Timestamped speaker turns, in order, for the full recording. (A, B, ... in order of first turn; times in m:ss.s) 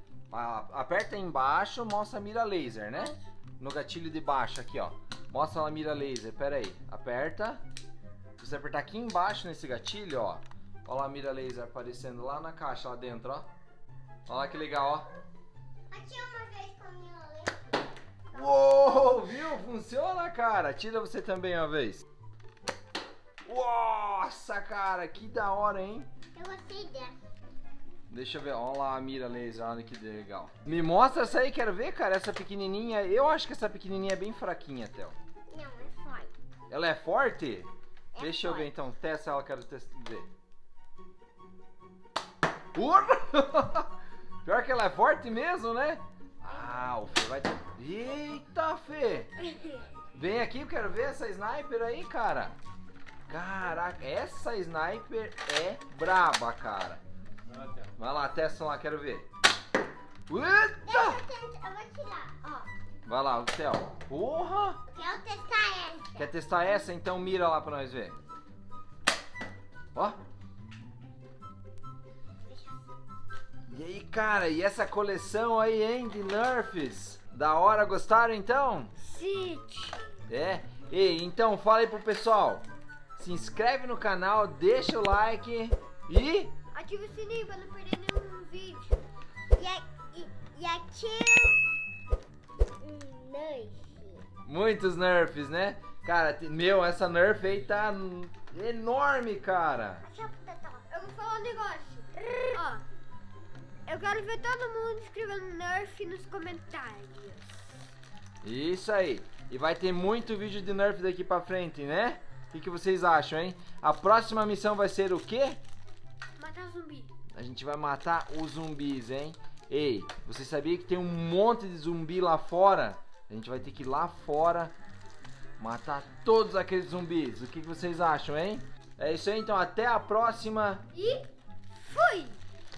0:00.3-0:07.6 A
0:02.9-0:03.2 B
0:08.4-0:13.5 A
0:14.3-0:15.1 A
0:15.9-0:19.2 B
0:18.3-0:22.0 A
0:23.4-0:26.1 A
0:26.3-0:27.1 B
0:28.1-0:35.2 A
0:35.5-0:36.3 B
0:36.7-0:40.3 A
0:38.1-0:38.7 B
0:42.7-0:43.9 A
0:44.4-0:49.3 A
0:50.1-0:52.6 A
0:53.3-0:57.0 A
0:58.0-0:59.3 A
1:00.3-1:01.2 A
1:00.8-1:02.7 B
1:03.0-1:04.8 A
1:04.9-1:06.3 B
1:06.2-1:08.2 A
1:09.9-1:10.2 A
1:12.4-1:12.9 B
1:13.7-1:18.9 A
1:19.0-1:20.1 C
1:20.3-1:22.6 A
1:23.2-1:26.5 A
1:26.7-1:29.0 C
1:29.5-1:31.6 B
1:32.8-1:34.2 B
1:34.4-1:40.0 A
1:40.0-1:40.9 B
1:40.9-1:42.8 C
1:42.2-1:42.6 B
1:43.9-1:47.8 C
1:48.4-1:55.6 A
1:56.4-1:57.1 C
1:57.4-2:04.7 A
2:05.6-2:10.8 A
2:10.9-2:12.4 C